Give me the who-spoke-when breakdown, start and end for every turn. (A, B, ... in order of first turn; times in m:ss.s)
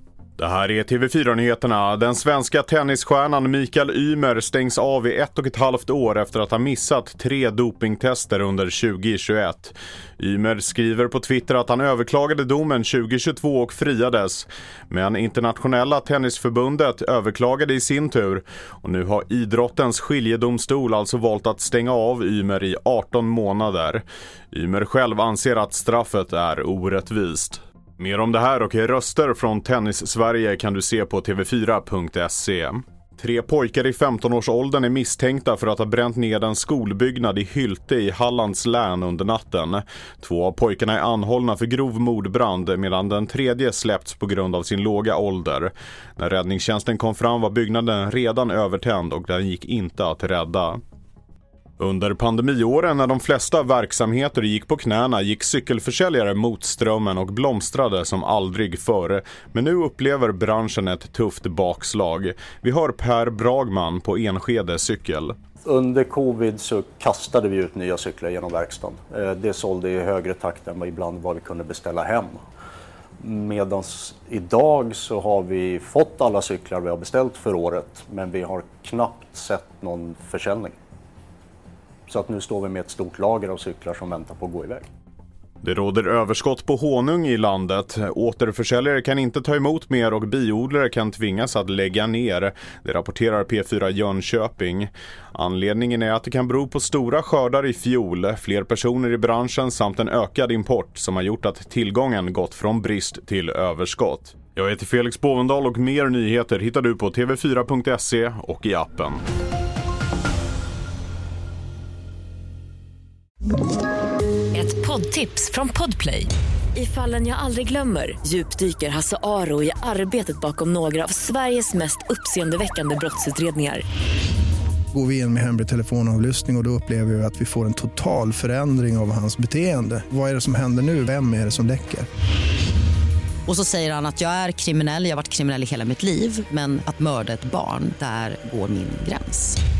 0:00.4-0:50.8 A
0:51.8-1:05.3 A
1:05.6-1:12.4 B
1:13.2-1:20.8 B
1:22.1-1:24.9 B
1:25.6-1:49.2 A
1:54.5-2:03.8 C
2:04.9-2:12.1 D
2:13.4-2:19.6 E